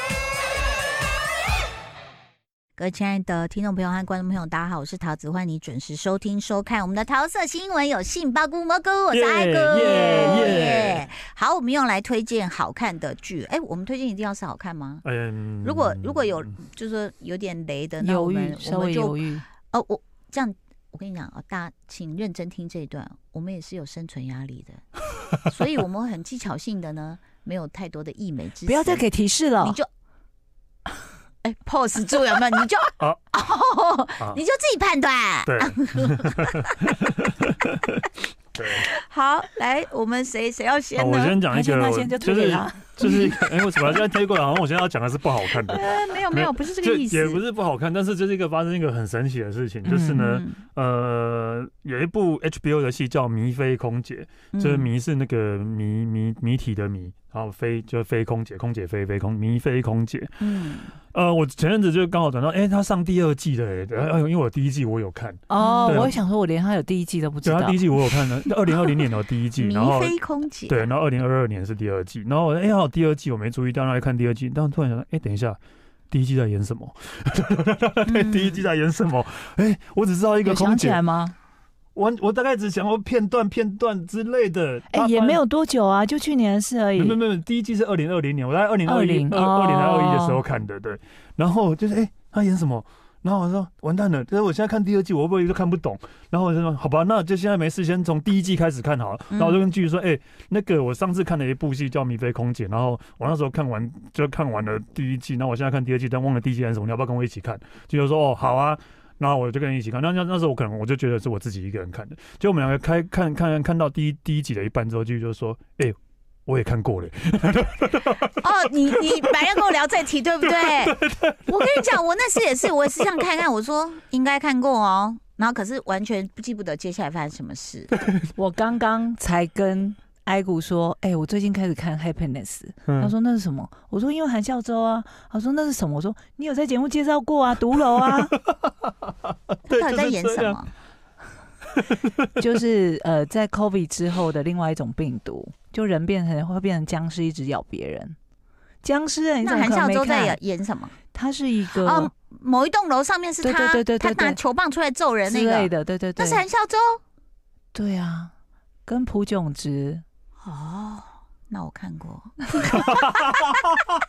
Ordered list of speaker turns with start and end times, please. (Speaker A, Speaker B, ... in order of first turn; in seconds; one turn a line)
Speaker A: 2.8-15.0
Speaker B: 9.1-11.1
Speaker B: 15.0-16.5
Speaker A: 15.6-24.8
Speaker C: 18.0-19.4
Speaker A: 25.4-29.0
Speaker C: 28.6-29.8
Speaker A: 29.6-29.9
Speaker A: 31.4-36.8
Speaker B: 35.5-38.0
Speaker B: 38.5-38.9
Speaker A: 38.7-41.4
Speaker B: 41.0-60.4
Speaker C: 41.5-43.2
Speaker A: 43.0-43.3
Speaker A: 45.6-47.4
Speaker C: 49.9-50.2
Speaker A: 50.1-50.6
Speaker A: 54.5-54.9
Speaker A: 60.4-60.9
Speaker B: 61.1-66.1
Speaker C: 65.5-67.8
Speaker A: 65.6-66.2
Speaker B: 67.5-70.2
Speaker A: 69.6-70.9
Speaker B: 70.7-75.6
Speaker B: 76.1-81.0
Speaker A: 78.1-78.6
Speaker C: 80.4-81.3
Speaker B: 82.0-85.4
Speaker C: 84.9-87.2
Speaker B: 87.0-119.6
Speaker C: 88.8-90.4
Speaker A: 99.3-99.6
Speaker A: 118.3-127.9
Speaker B: 120.4-122.0
Speaker B: 128.0-128.3
Speaker C: 128.3-138.3
Speaker B: 138.4-140.6
Speaker A: 139.7-140.7
Speaker B: 141.7-142.3
Speaker C: 142.4-148.2
Speaker C: 148.8-150.4
Speaker A: 149.4-151.0
Speaker C: 151.1-152.1
Speaker A: 151.7-157.0
Speaker C: 153.4-154.4
Speaker C: 155.2-156.4
Speaker C: 157.7-158.3
Speaker C: 158.8-160.0
Speaker A: 160.4-163.7
Speaker B: 162.7-163.3